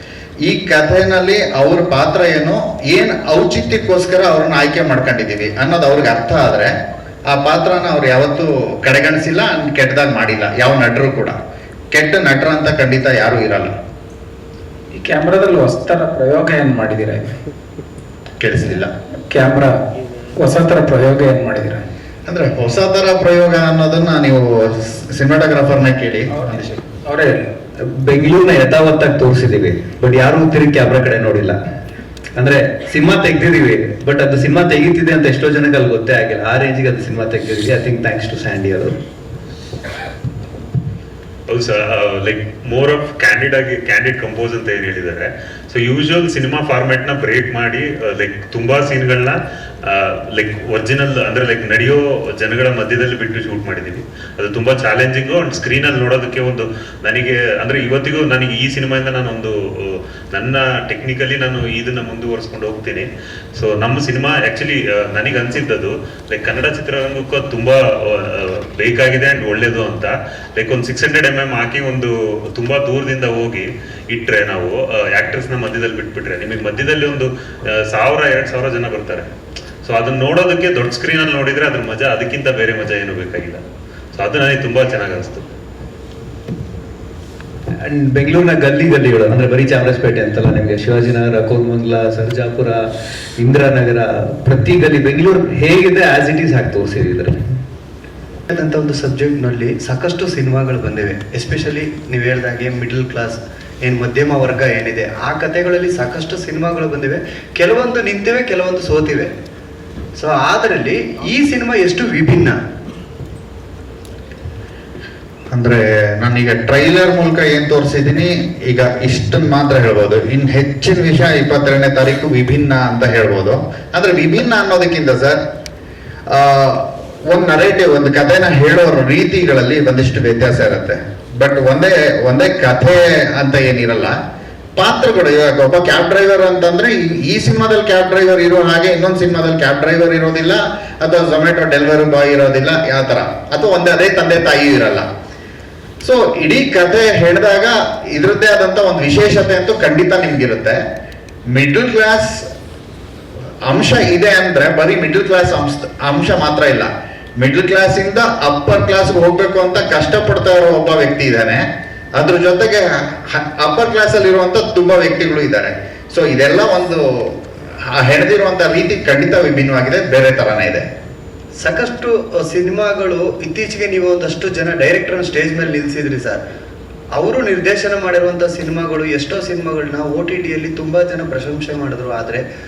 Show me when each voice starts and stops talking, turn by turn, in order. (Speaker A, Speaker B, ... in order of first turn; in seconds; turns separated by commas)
Speaker A: 0.4-6.7, Speaker A: 7.3-11.3, Speaker A: 11.9-13.7, Speaker B: 15.0-17.4, Speaker A: 18.4-18.9, Speaker B: 19.3-19.8, Speaker B: 20.4-21.8, Speaker A: 22.3-26.4, Speaker B: 26.3-27.5, Speaker C: 27.8-31.6, Speaker C: 32.4-39.0, Speaker D: 41.5-79.2, Speaker D: 79.8-83.6, Speaker D: 84.1-85.5, Speaker C: 87.8-92.9, Speaker C: 93.4-97.4, Speaker E: 98.5-109.3, Speaker E: 110.2-112.6, Speaker A: 115.5-125.4, Speaker A: 126.3-134.1, Speaker A: 134.8-145.1, Speaker A: 146.0-150.8, Speaker A: 151.5-152.4, Speaker A: 153.7-161.6, Speaker A: 162.2-167.3, Speaker A: 167.9-170.8, Speaker E: 171.6-176.4, Speaker E: 177.1-182.4